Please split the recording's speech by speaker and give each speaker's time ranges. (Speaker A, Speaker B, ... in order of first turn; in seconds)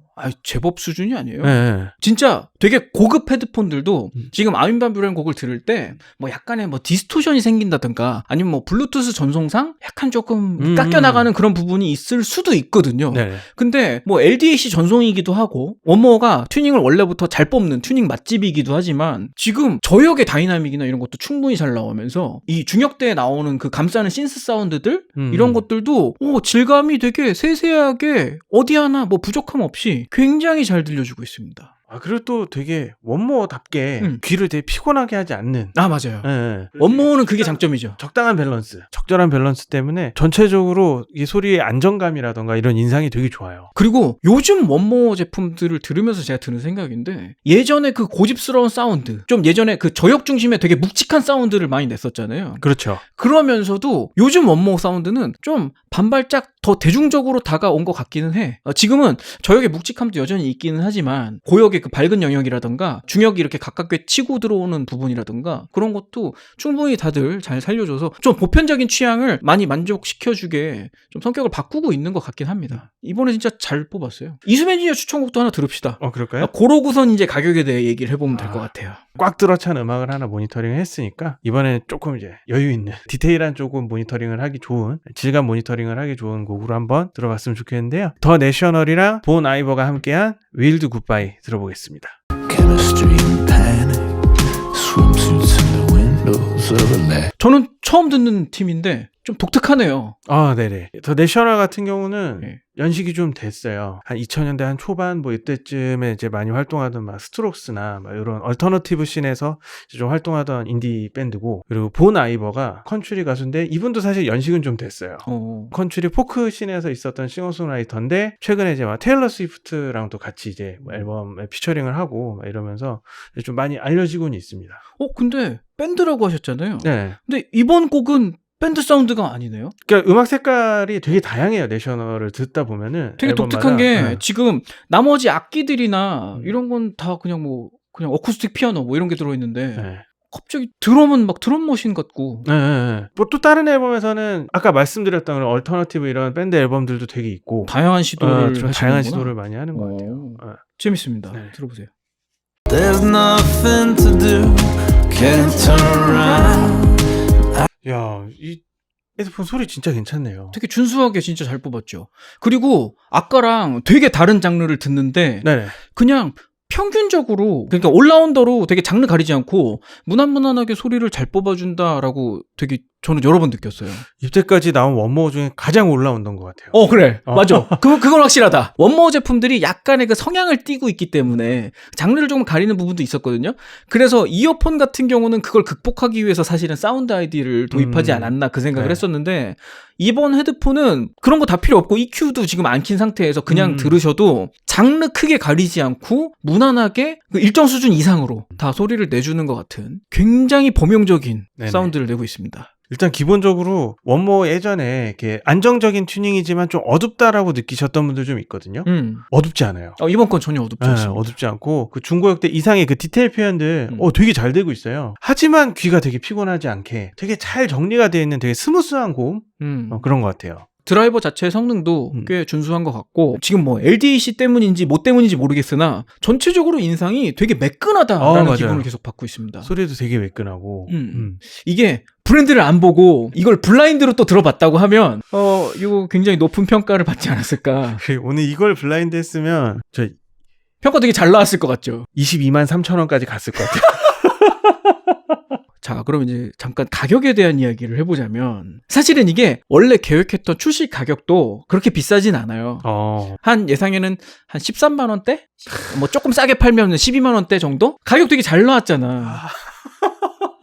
Speaker A: 0.1-31.7, 35.7-38.0, 43.8-79.0, 97.4-100.2, 115.2-115.7, 125.0-129.7, 133.2-142.5, 147.7-151.9, 160.5-174.1, 176.7-202.7, 208.8-209.2, 210.0-211.3, 219.6-220.1, 220.8-229.7, 230.9-238.0, 240.8-242.1, 245.8-252.9, 253.4-259.4
Speaker B: 1.4-1.9, 10.6-11.3, 13.1-13.4, 25.1-25.6, 31.9-43.7, 52.6-53.0, 76.0-76.5, 78.3-92.2, 100.3-124.8, 126.8-127.2, 129.8-134.2, 139.8-140.0, 142.4-150.6, 157.8-158.6, 159.2-160.6, 165.4-165.8, 174.2-177.8, 187.7-189.0, 193.5-194.0, 201.6-201.9, 202.9-210.0, 210.8-220.7, 228.2-228.9, 229.6-231.4, 237.9-240.2, 242.1-244.9, 252.8-253.4, 259.2-260.1
Speaker C: 92.5-97.3, 152.7-157.6